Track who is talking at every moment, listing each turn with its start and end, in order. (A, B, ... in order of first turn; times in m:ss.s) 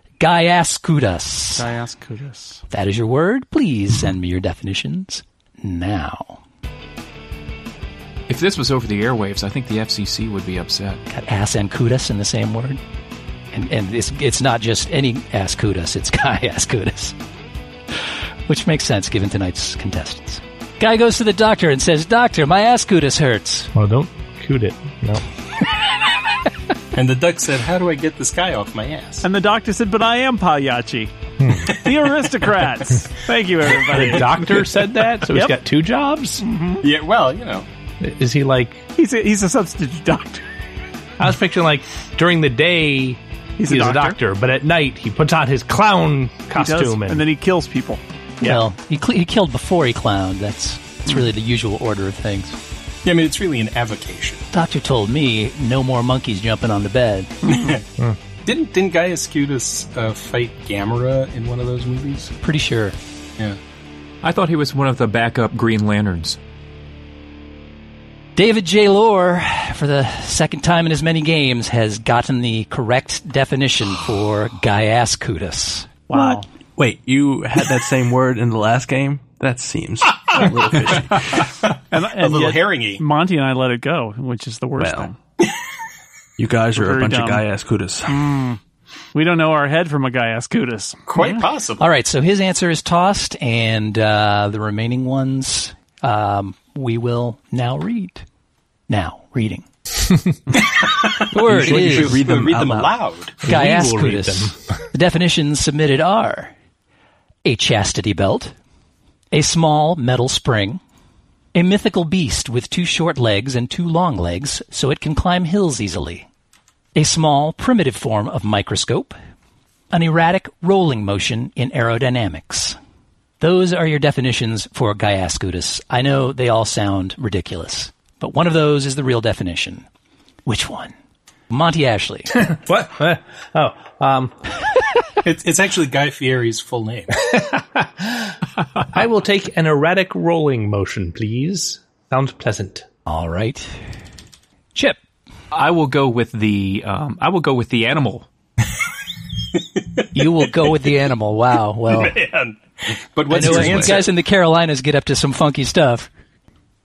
0:00.2-0:01.7 A
0:01.5-0:02.6 B
0:02.7-0:06.4 A
0:08.3-0:11.0 C
0:11.1-0:12.8 A
0:13.5-0:17.2 A
0:18.5-0:23.7 A
0:23.7-0:25.2 D
0:26.9-0:29.2 E
0:29.2-0:31.1 B
0:31.4-0:31.8 D
0:31.6-0:34.6 B
0:33.8-0:36.4 D
0:35.3-0:35.6 B
0:36.4-0:36.8 B
0:36.8-0:37.7 E
0:38.0-0:38.8 D
0:39.0-0:40.5 B
0:41.2-0:47.3 D
0:43.6-0:44.2 B
0:46.6-0:48.6 B
0:48.4-0:52.6 A
0:53.0-0:54.4 E
0:54.5-0:57.5 A
0:57.5-0:57.8 E
0:58.4-1:02.3 E
1:02.4-1:03.0 A
1:04.2-1:06.4 C
1:08.4-1:15.9 A
1:16.1-1:16.5 B
1:16.1-1:21.5 F
1:21.9-1:25.2 B
1:22.2-1:23.0 E
1:24.8-1:25.1 F
1:26.4-1:28.2 F
1:26.8-1:27.4 B
1:28.1-1:28.6 B
1:29.1-1:31.4 B
1:31.1-1:31.9 E
1:31.8-1:38.2 A
1:38.9-1:39.7 A
1:40.6-1:43.4 E
1:41.2-1:42.4 A
1:41.5-1:42.9 F
1:43.4-1:46.5 A
1:43.4-1:44.8 D
1:47.4-1:48.5 A
1:49.3-1:50.8 A
1:51.5-1:56.3 A
1:57.0-1:59.2 A
1:59.9-2:02.8 A
2:03.4-2:09.8 A
2:10.5-2:10.9 A
2:11.5-2:12.4 A
2:12.4-2:14.4 D
2:15.2-2:17.3 E
2:17.3-2:18.4 D
2:18.9-2:22.9 D
2:23.1-2:23.7 A
2:24.8-2:25.0 A
2:25.5-2:28.3 C
2:30.1-2:32.2 A
2:31.9-2:34.1 E
2:33.3-2:36.1 A
2:33.3-2:34.0 F